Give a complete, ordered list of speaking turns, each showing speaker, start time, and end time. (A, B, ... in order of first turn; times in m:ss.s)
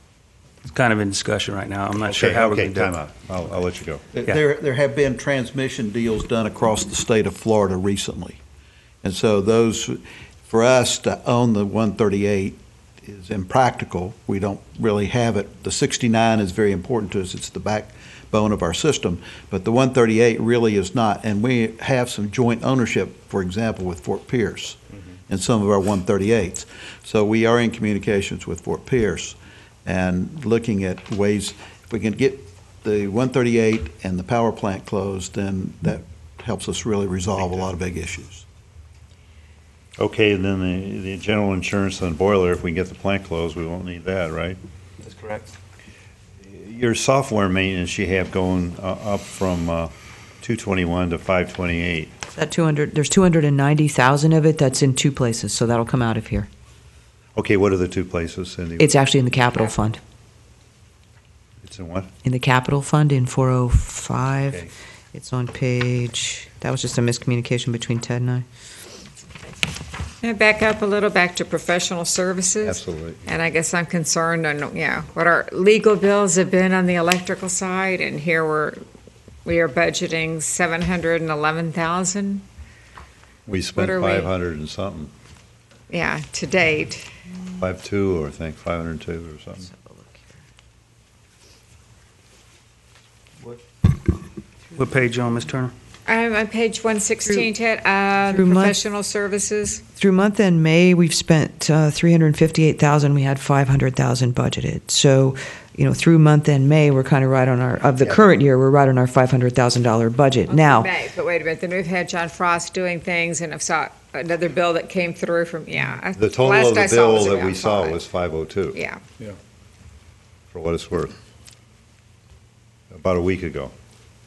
0:00.6-0:02.9 A
0:02.0-0:04.1 B
0:04.1-0:08.4 C
0:09.0-0:38.4 C
0:40.0-0:44.6 B
0:45.2-0:45.4 A
0:46.4-0:52.2 B
0:52.3-0:56.5 D
0:57.4-0:59.0 B
0:58.8-1:00.0 D
1:01.6-1:02.1 B
1:02.2-1:04.6 D
1:04.4-1:04.7 B
1:05.1-1:08.4 D
1:10.2-1:18.8 E
1:12.6-1:13.3 B
1:19.4-1:22.4 E
1:23.4-1:25.1 B
1:23.7-1:24.3 E
1:25.9-1:27.0 E
1:27.6-1:29.7 B
1:29.8-1:30.2 D
1:34.8-1:35.7 A
1:36.1-1:39.8 E
1:38.3-1:38.8 D
1:40.0-1:50.9 D
1:50.5-1:58.0 E
1:56.1-1:58.8 B
1:58.7-1:59.0 E
2:00.5-2:01.1 B
2:02.9-2:03.7 B